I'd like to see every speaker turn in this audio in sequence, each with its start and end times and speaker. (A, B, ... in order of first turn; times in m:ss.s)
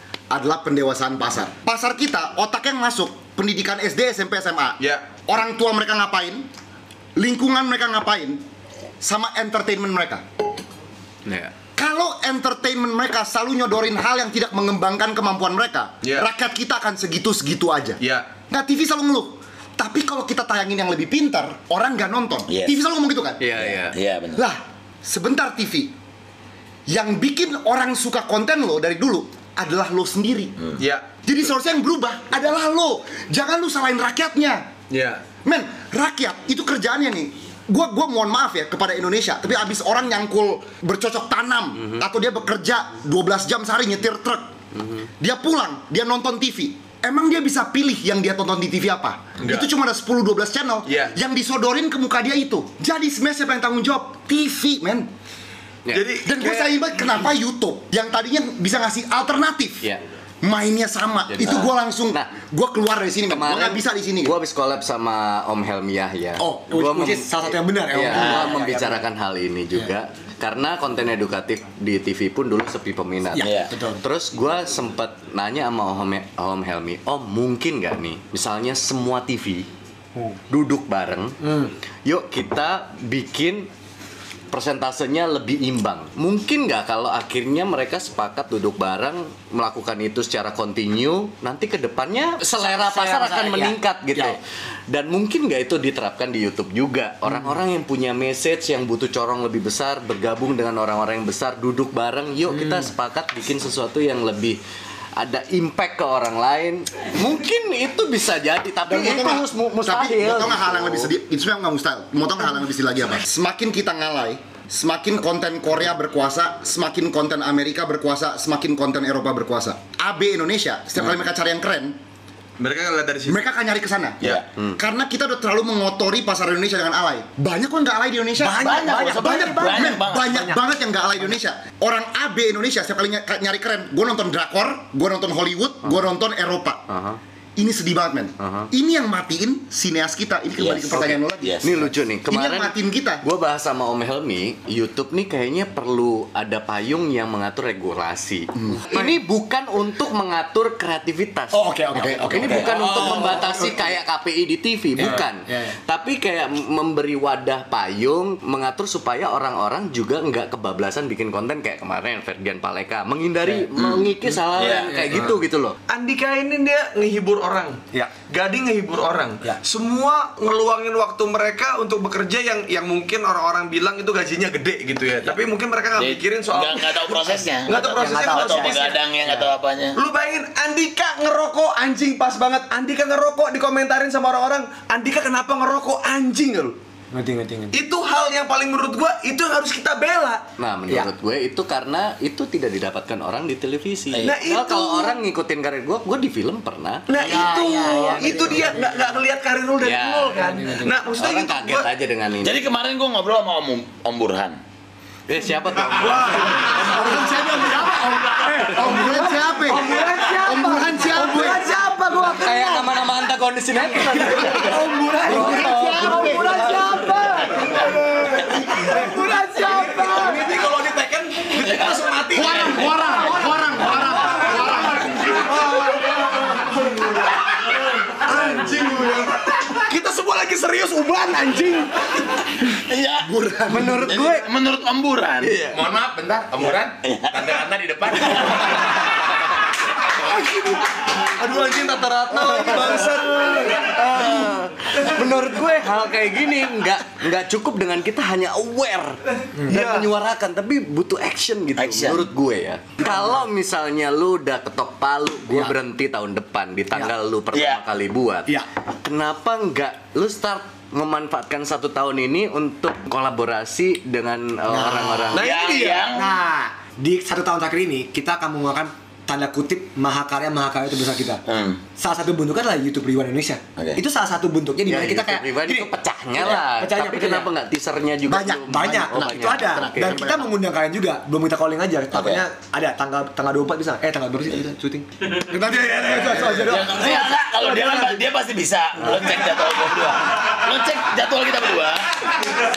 0:00.3-0:06.5 A
0:04.8-0:05.0 B
0:07.2-0:08.4 A
0:09.0-0:10.3 A
0:11.3-0:11.5 C
0:11.8-0:18.0 A
0:16.0-0:16.3 B
0:18.0-0:18.3 B
0:18.5-0:23.7 A
0:22.5-0:22.8 D
0:23.4-0:24.0 C
0:23.9-0:24.4 D
0:24.4-0:25.9 A
0:26.9-0:30.5 A
0:30.8-0:31.1 B
0:31.2-0:34.7 A
0:34.9-0:35.2 B
0:35.4-0:44.5 A
0:45.2-0:55.1 A
0:49.4-0:49.7 B
0:50.9-0:51.1 B
0:55.9-0:57.3 B
0:56.2-0:59.8 A
1:00.4-1:04.4 A
1:01.3-1:02.3 C
1:03.3-1:19.7 C
1:06.4-1:06.7 A
1:06.7-1:09.0 E
1:13.3-1:14.0 E
1:13.4-1:13.7 D
1:20.5-1:21.4 C
1:21.4-1:21.7 E
1:22.0-1:23.7 C
1:24.5-1:44.6 C
1:32.4-1:34.4 E
1:37.3-1:37.6 E
1:42.5-1:42.9 E
1:45.2-1:51.1 C
1:48.9-2:02.0 A
1:48.9-1:49.4 E
2:02.6-2:03.4 B
2:03.3-2:16.8 A
2:08.4-2:10.6 E
2:08.6-2:10.4 D
2:16.9-2:17.2 C
2:17.6-2:23.2 A
2:18.4-2:18.7 C
2:20.6-2:21.7 D
2:21.6-2:45.8 C
2:28.6-2:28.8 A
2:31.5-2:32.7 A
2:31.7-2:33.8 E
2:32.7-2:33.1 F
2:35.0-2:35.7 E
2:43.8-2:44.9 D
2:44.9-2:45.3 E
2:45.9-2:59.0 B
2:56.0-3:00.0 D
2:57.7-2:59.5 E
3:00.0-3:06.8 B
3:07.1-3:07.8 E
3:07.7-3:10.4 B
3:10.6-3:17.1 C
3:14.1-3:14.4 D
3:14.2-3:15.2 B
3:17.1-3:18.7 E
3:17.1-3:21.9 B
3:17.2-3:18.4 D
3:19.8-3:22.6 C
3:20.4-3:20.8 E
3:22.4-3:24.6 D
3:25.3-3:26.5 C
3:26.0-3:26.9 B
3:26.8-3:31.7 A
3:28.4-3:33.0 E
3:32.3-3:36.9 C
3:33.9-3:40.5 E
3:35.2-3:36.8 A
3:38.4-3:46.7 B
3:41.6-3:42.0 D
3:42.3-3:45.2 A
3:43.0-3:43.6 E
3:48.0-3:52.0 B
3:48.5-3:48.8 E
3:52.7-3:55.7 D
3:53.2-3:54.3 A
3:53.7-3:54.5 E
3:55.5-3:59.2 F
3:57.0-3:57.6 D
4:01.2-4:04.0 B
4:02.4-4:02.9 E
4:03.9-4:18.5 C
4:09.6-4:09.8 E
4:09.7-4:10.1 B
4:11.8-4:12.3 D
4:17.5-4:17.8 D
4:19.0-4:25.5 C
4:24.7-4:25.3 E
4:25.3-4:26.1 B
4:25.4-4:26.3 D
4:26.1-4:31.4 E
4:31.5-4:31.8 D
4:32.0-4:37.5 E
4:34.9-4:40.4 C
4:38.3-4:40.5 A
4:38.6-4:48.2 E
4:42.1-4:42.4 D
4:46.2-4:52.2 D